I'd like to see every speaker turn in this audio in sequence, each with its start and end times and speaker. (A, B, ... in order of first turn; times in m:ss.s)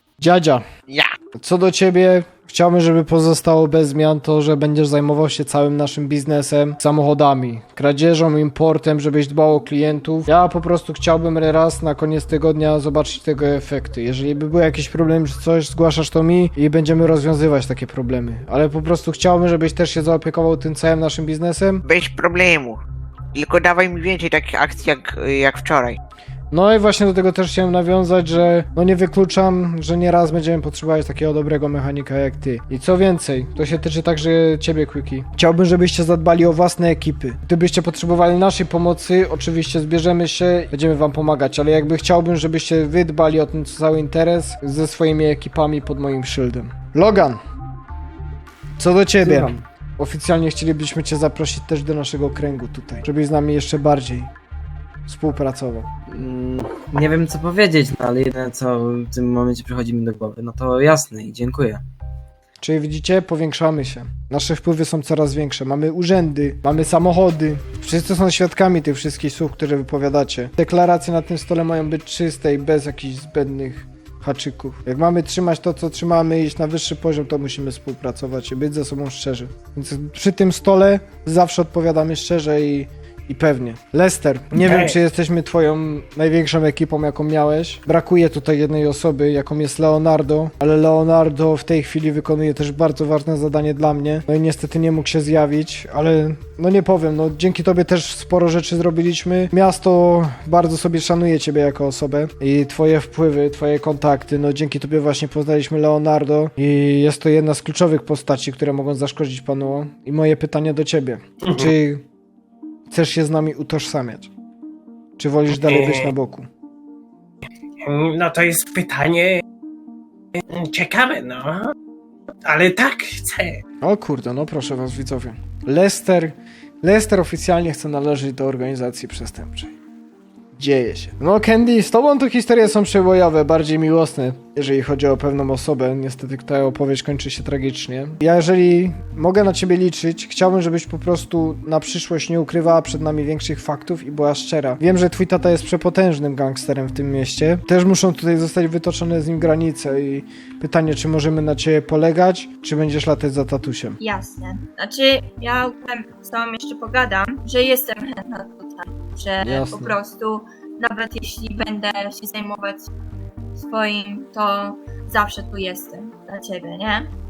0:00.2-0:00.6 A
0:01.4-0:21.8 A
0:21.8-0:22.8 B
0:23.3-0:26.0 B
0:26.5-0:47.4 A
0:48.8-0:54.3 A
0:55.1-0:55.9 A
0:56.1-1:01.8 C
1:02.6-1:52.0 A
1:24.5-1:25.0 D
1:51.4-1:51.7 D
1:52.9-1:54.3 A
1:55.2-1:56.5 A
1:55.5-1:56.1 D
1:57.8-1:59.4 D
2:00.4-2:01.7 D
2:02.4-2:03.6 D
2:03.8-2:09.7 A
2:10.6-2:34.0 A
2:34.0-2:42.9 E
2:39.4-2:40.0 A
2:43.6-2:47.1 E